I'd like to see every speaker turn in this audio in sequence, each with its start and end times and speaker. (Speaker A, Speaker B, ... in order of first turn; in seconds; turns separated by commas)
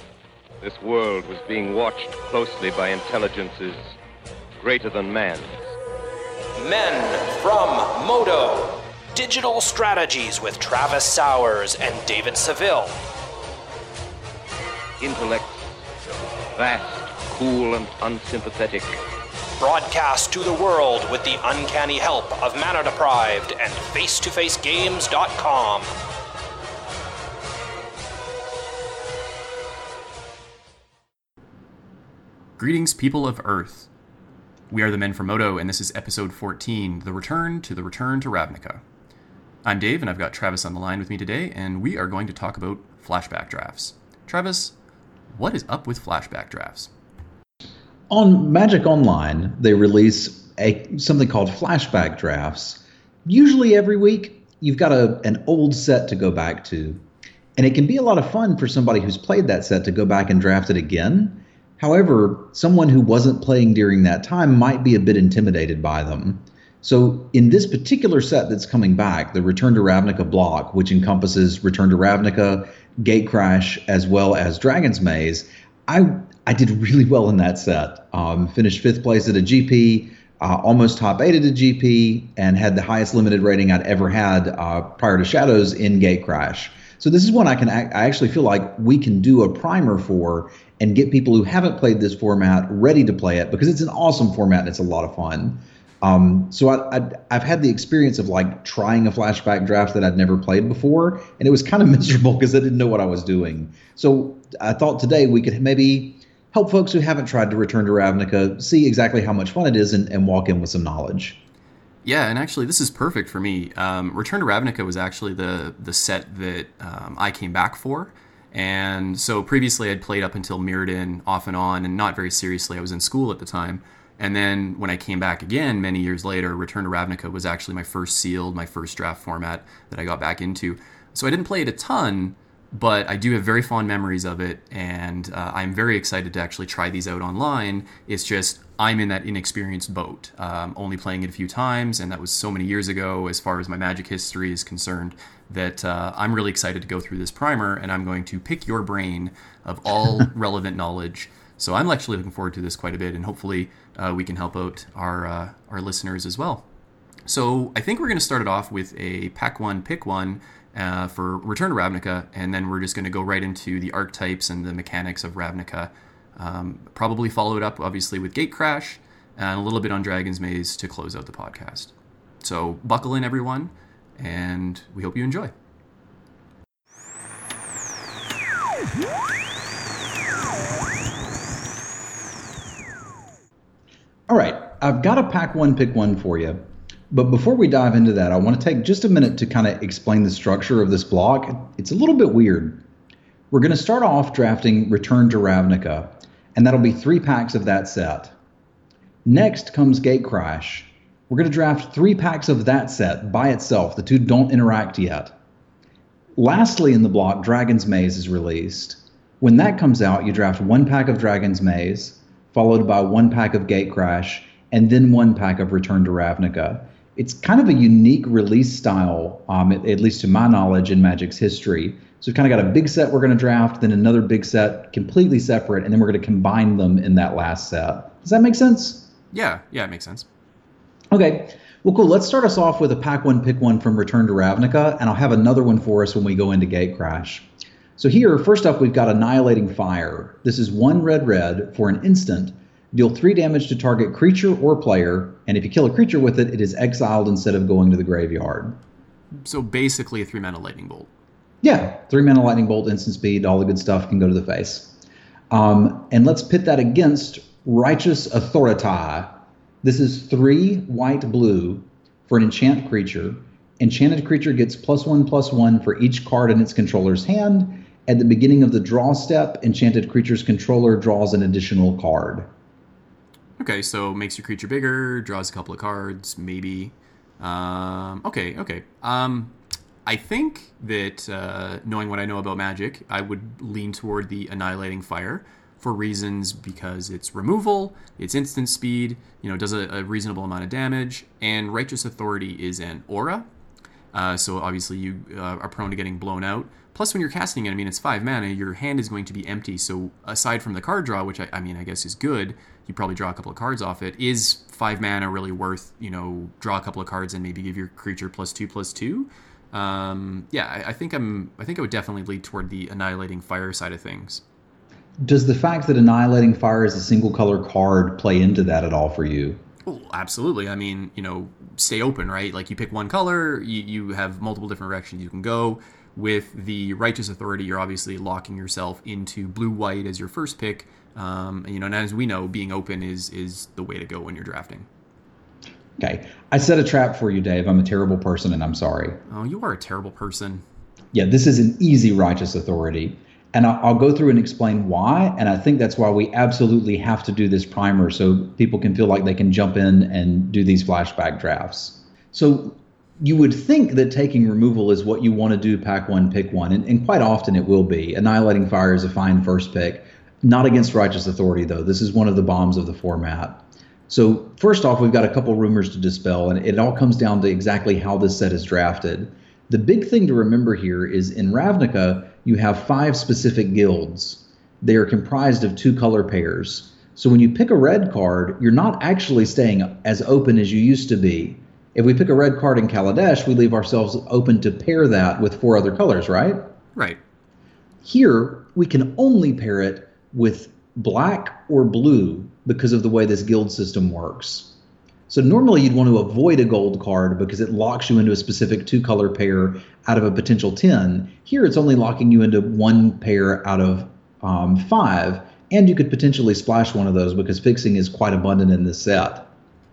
Speaker A: 0.6-3.9, Speaker A: 4.6-5.6, Speaker B: 6.6-13.0, Speaker A: 15.0-15.6, Speaker A: 16.6-19.0, Speaker B: 19.6-25.9, Speaker C: 32.6-33.9, Speaker C: 34.7-38.8, Speaker C: 39.6-44.7, Speaker C: 45.3-46.9, Speaker D: 48.1-57.0, Speaker D: 57.6-111.4, Speaker C: 112.0-156.6, Speaker C: 157.3-175.5, Speaker D: 184.3-192.8, Speaker D: 193.5-198.3, Speaker D: 199.2-205.3, Speaker D: 206.3-229.1, Speaker C: 229.3-230.3, Speaker D: 231.1-248.8, Speaker C: 249.4-251.1, Speaker D: 251.6-254.9, Speaker D: 255.5-272.5, Speaker C: 273.6-279.5, Speaker C: 280.1-293.5, Speaker C: 294.1-314.4, Speaker D: 315.2-319.6, Speaker C: 319.8-334.9, Speaker D: 336.0-339.2, Speaker C: 339.3-340.6, Speaker D: 341.1-386.6, Speaker D: 388.0-394.7, Speaker D: 395.3-409.5